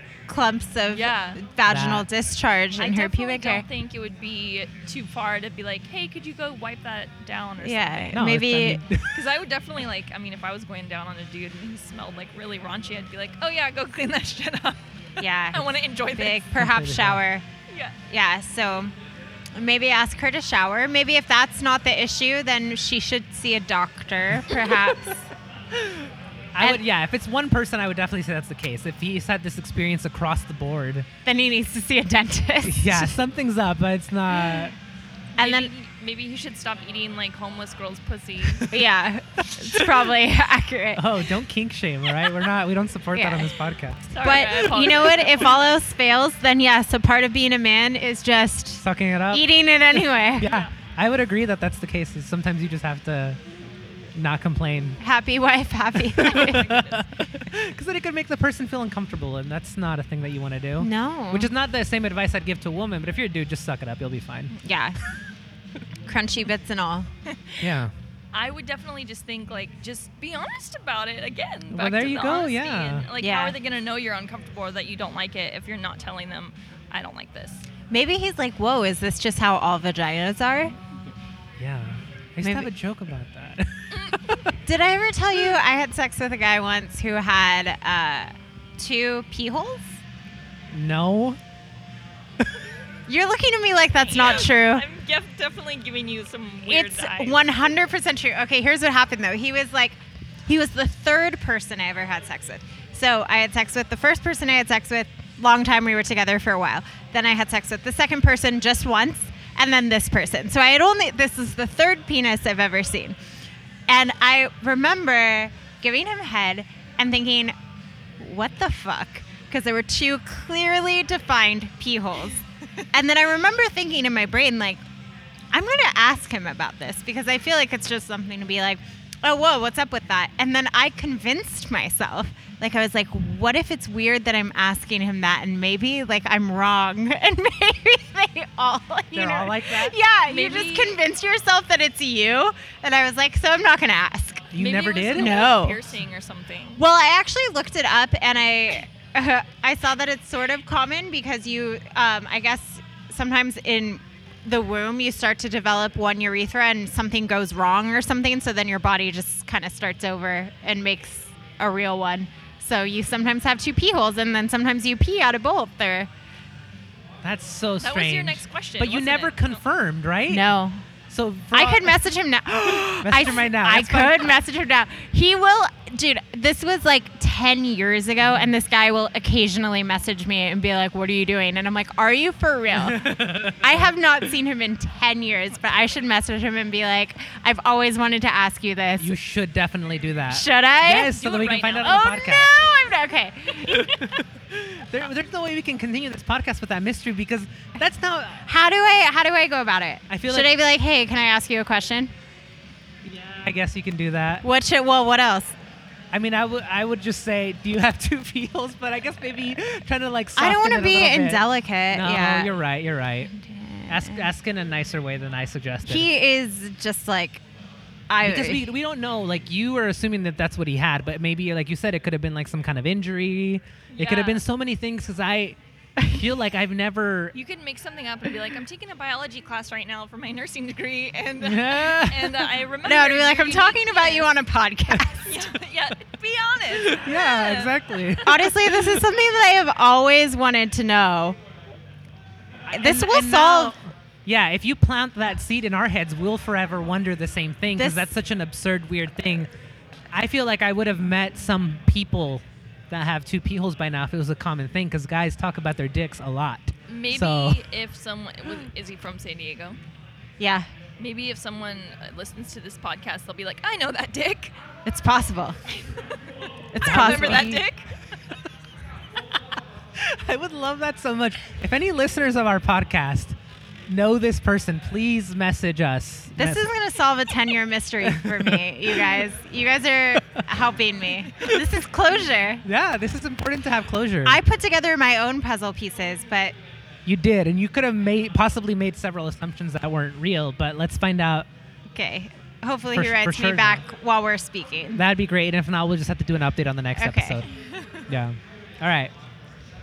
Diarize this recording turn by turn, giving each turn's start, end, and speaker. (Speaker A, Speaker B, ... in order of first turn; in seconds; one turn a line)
Speaker A: 0.3-3.6
Speaker B: 0.9-1.4
Speaker C: 1.6-2.1
Speaker B: 2.8-8.2
Speaker A: 7.6-8.8
Speaker C: 8.1-9.2
Speaker B: 9.1-14.8
Speaker A: 15.2-17.5
Speaker B: 15.5-16.4
Speaker C: 16.5-17.2
Speaker B: 17.7-17.9
Speaker A: 18.1-18.9
Speaker A: 19.5-25.3
Speaker C: 25.7-31.1
Speaker A: 31.2-33.2
Speaker C: 32.6-34.8
Speaker A: 35.4-35.7
Speaker B: 35.4-38.7
Speaker C: 38.6-38.8
Speaker A: 38.7-41.2
Speaker C: 39.4-40.1
Speaker C: 41.0-44.1
Speaker A: 43.1-43.5
Speaker B: 44.1-45.7
Speaker A: 44.2-50.5
Speaker C: 48.8-53.4
Speaker B: 50.5-50.7
Speaker C: 54.1-55.0
Speaker A: 55.0-56.7
Speaker C: 56.0-64.5
Speaker B: 56.3-57.1
Speaker A: 60.8-61.5
Speaker A: 64.5-65.0
Speaker A: 66.1-67.1
Speaker C: 67.6-67.9
Speaker B: 68.3-77.7
Speaker C: 71.7-73.1
Speaker A: 73.2-73.5
Speaker A: 77.9-80.8
Speaker C: 81.6-84.5
Speaker A: 82.4-82.7
Speaker B: 83.9-84.3
Speaker A: 84.6-90.0
Speaker C: 90.7-91.4
Speaker A: 93.1-94.8
Speaker B: 94.0-97.4
Speaker A: 96.7-113.2
Speaker A: 113.9-117.5
Speaker A: 118.2-124.8
Speaker A: 125.5-144.5
Speaker C: 139.1-140.0
Speaker B: 140.3-141.0
Speaker C: 144.5-145.4
Speaker B: 144.6-146.8
Speaker A: 145.1-145.8
Speaker A: 146.8-166.1
Speaker C: 167.2-170.5
Speaker B: 167.8-169.6
Speaker A: 170.3-170.8
Speaker C: 171.1-172.0
Speaker A: 171.5-189.1
Speaker C: 173.0-174.4
Speaker C: 178.2-178.5
Speaker C: 182.7-183.9
Speaker C: 189.0-192.6
Speaker A: 190.3-191.1
Speaker B: 191.0-192.5
Speaker A: 191.8-194.1
Speaker C: 193.7-198.4
Speaker A: 198.5-202.1
Speaker C: 200.1-200.5
Speaker C: 203.0-204.5
Speaker A: 204.4-205.5
Speaker C: 206.1-213.3
Speaker A: 210.4-212.5
Speaker A: 213.3-214.3
Speaker C: 213.9-216.1
Speaker A: 215.8-217.4
Speaker A: 218.1-218.7
Speaker C: 218.2-225.6
Speaker B: 223.9-224.4
Speaker C: 226.1-227.3
Speaker B: 227.3-234.3
Speaker C: 231.4-232.5
Speaker A: 232.8-235.5
Speaker B: 235.2-238.2
Speaker C: 236.7-239.0
Speaker A: 238.2-241.4
Speaker C: 242.7-249.5
Speaker A: 242.7-243.8
Speaker A: 247.8-248.1
Speaker C: 250.1-257.6
Speaker B: 256.9-259.8
Speaker A: 260.4-260.7
Speaker B: 261.0-264.5
Speaker A: 264.9-265.6
Speaker A: 266.7-267.6
Speaker C: 266.8-267.6
Speaker B: 266.8-267.9
Speaker C: 270.0-273.4
Speaker C: 273.9-276.7
Speaker A: 276.4-282.6
Speaker C: 278.0-279.2
Speaker C: 280.2-280.4
Speaker C: 281.4-281.7
Speaker C: 282.6-284.4
Speaker A: 284.2-286.6
Speaker C: 287.1-291.5
Speaker A: 291.9-295.0
Speaker C: 292.9-293.9
Speaker C: 294.9-297.5
Speaker A: 297.0-297.4
Speaker B: 297.8-298.0
Speaker C: 298.1-299.1